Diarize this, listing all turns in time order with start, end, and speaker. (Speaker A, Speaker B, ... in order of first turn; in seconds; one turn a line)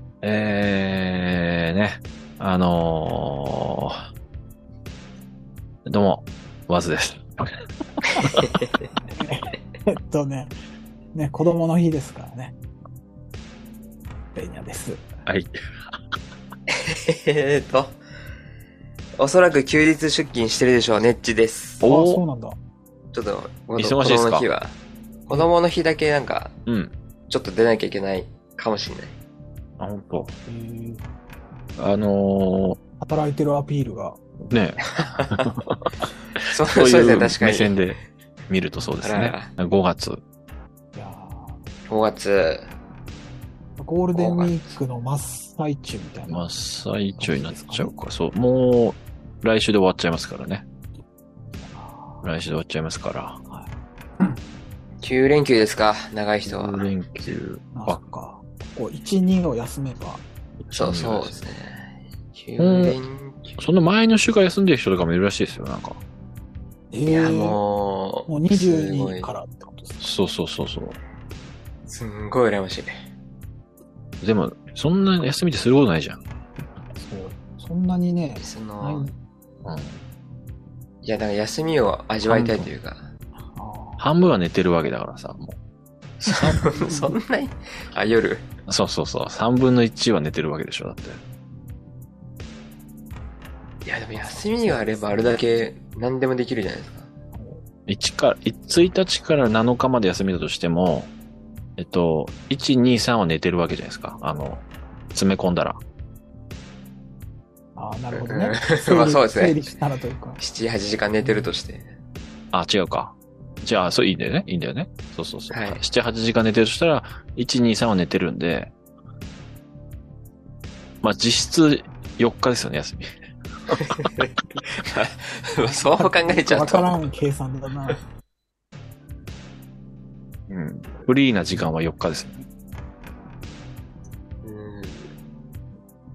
Speaker A: 0.2-4.0
Speaker A: 5.9-7.5
Speaker B: 8.4-8.7
Speaker C: 9.1-10.5
Speaker C: 11.1-12.6
Speaker C: 14.3-15.1
Speaker A: 15.3-16.0
Speaker B: 16.7-17.9
Speaker B: 19.2-21.9
Speaker A: 21.8-22.2
Speaker C: 21.9-22.6
Speaker B: 23.1-26.5
Speaker A: 23.8-24.5
Speaker A: 26.7-26.9
Speaker B: 27.3-29.2
Speaker A: 29.8-30.3
Speaker C: 30.5-31.0
Speaker A: 31.8-32.8
Speaker C: 33.0-34.2
Speaker A: 34.5-36.1
Speaker B: 34.9-35.5
Speaker B: 36.5-37.8
Speaker A: 36.7-38.0
Speaker A: 38.5-40.2
Speaker B: 39.0-39.5
Speaker C: 40.9-41.6
Speaker B: 41.9-42.7
Speaker C: 43.8-46.5
Speaker B: 44.1-44.8
Speaker A: 46.3-50.7
Speaker C: 47.2-48.0
Speaker C: 51.6-52.3
Speaker A: 52.2-53.4
Speaker C: 53.5-54.4
Speaker B: 55.0-56.9
Speaker A: 56.5-58.0
Speaker C: 57.7-60.2
Speaker A: 60.7-61.4
Speaker B: 60.7-63.6
Speaker A: 62.6-63.0
Speaker A: 63.6-66.0
Speaker C: 66.9-67.6
Speaker B: 67.1-69.3
Speaker C: 68.3-70.1
Speaker A: 70.0-71.0
Speaker B: 71.9-72.9
Speaker A: 74.2-76.2
Speaker C: 77.0-79.1
Speaker B: 78.4-79.1
Speaker A: 79.6-80.0
Speaker B: 81.0-83.1
Speaker A: 82.2-82.7
Speaker C: 83.5-84.1
Speaker A: 84.0-85.6
Speaker B: 86.2-88.5
Speaker A: 86.2-86.6
Speaker C: 86.6-87.2
Speaker A: 88.7-91.2
Speaker B: 93.8-97.1
Speaker C: 94.1-95.5
Speaker C: 97.3-97.6
Speaker A: 97.9-101.1
Speaker A: 101.8-105.8
Speaker C: 107.8-110.4
Speaker B: 108.1-109.7
Speaker B: 110.4-112.0
Speaker C: 111.2-111.5
Speaker A: 112.5-118.7
Speaker B: 115.5-115.8
Speaker A: 121.0-123.1
Speaker B: 123.8-127.1
Speaker C: 126.0-128.0
Speaker A: 130.5-132.4
Speaker B: 134.4-135.1